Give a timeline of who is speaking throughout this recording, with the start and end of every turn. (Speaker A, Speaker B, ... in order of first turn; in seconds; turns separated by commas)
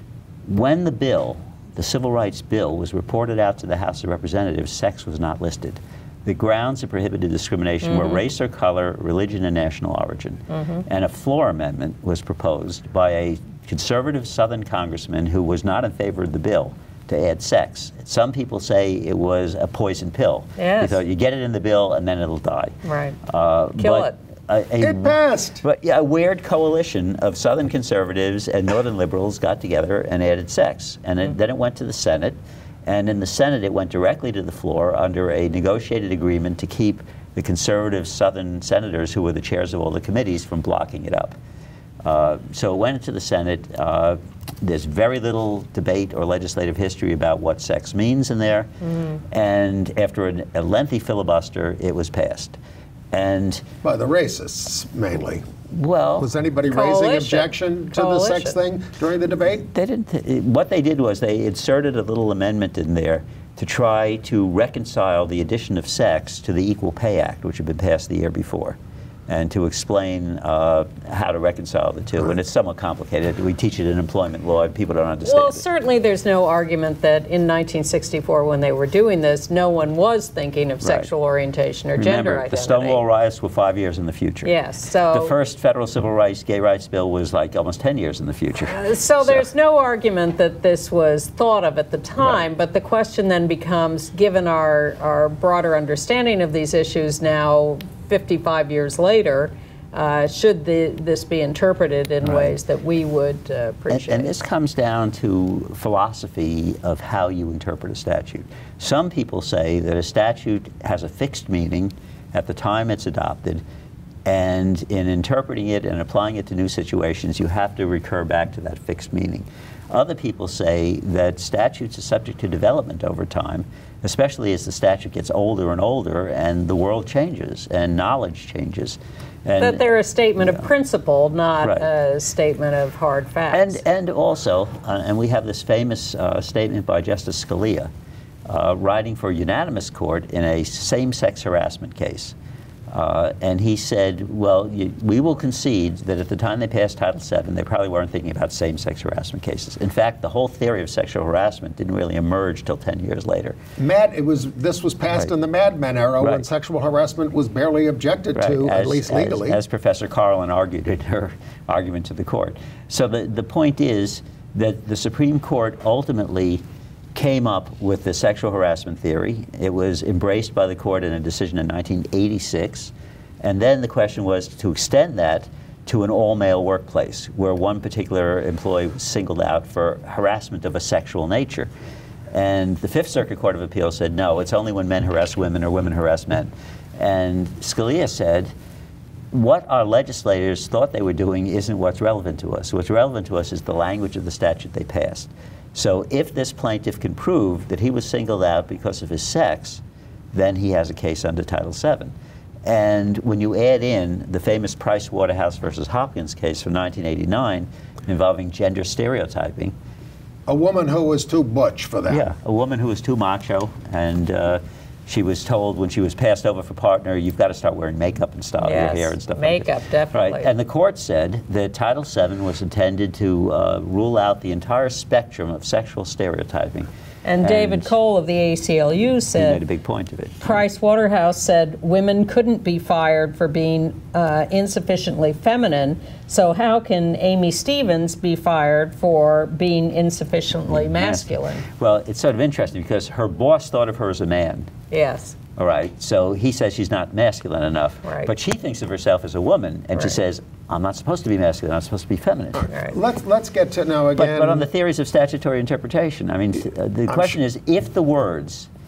Speaker A: 0.5-41.4, Speaker B: 7.8-8.2, Speaker B: 10.5-10.8, Speaker B: 20.6-21.0, Speaker B: 22.8-23.2, Speaker B: 23.8-24.1, Speaker C: 24.8-25.6, Speaker A: 42.0-48.7, Speaker B: 48.8-49.2, Speaker A: 49.3-52.6, Speaker A: 53.1-53.6, Speaker C: 53.8-55.4, Speaker A: 55.7-56.3, Speaker C: 56.2-59.7, Speaker B: 56.7-58.6, Speaker A: 59.7-68.8, Speaker A: 69.3-75.6, Speaker B: 75.2-83.0, Speaker A: 80.8-81.1, Speaker A: 82.0-84.5, Speaker B: 84.4-85.3, Speaker A: 85.1-89.4, Speaker B: 88.6-104.3, Speaker A: 102.2-102.6, Speaker A: 103.9-113.6, Speaker A: 114.2-130.6, Speaker B: 129.6-133.8, Speaker A: 133.5-137.9, Speaker A: 138.5-142.3, Speaker A: 142.9-153.6, Speaker C: 153.8-159.6, Speaker A: 158.3-166.6, Speaker A: 167.1-181.7, Speaker A: 182.3-188.5, Speaker A: 189.3-199.8, Speaker A: 200.3-202.1, Speaker A: 202.6-209.7, Speaker C: 210.5-212.3, Speaker A: 212.1-226.9, Speaker B: 218.6-220.5, Speaker B: 227.2-229.6, Speaker A: 227.4-227.9, Speaker A: 229.3-230.6, Speaker B: 230.4-241.6, Speaker A: 240.7-244.7, Speaker B: 244.9-245.3, Speaker A: 245.6-252.7, Speaker B: 248.0-248.3, Speaker C: 252.9-254.7, Speaker A: 254.2-258.7, Speaker C: 257.1-257.4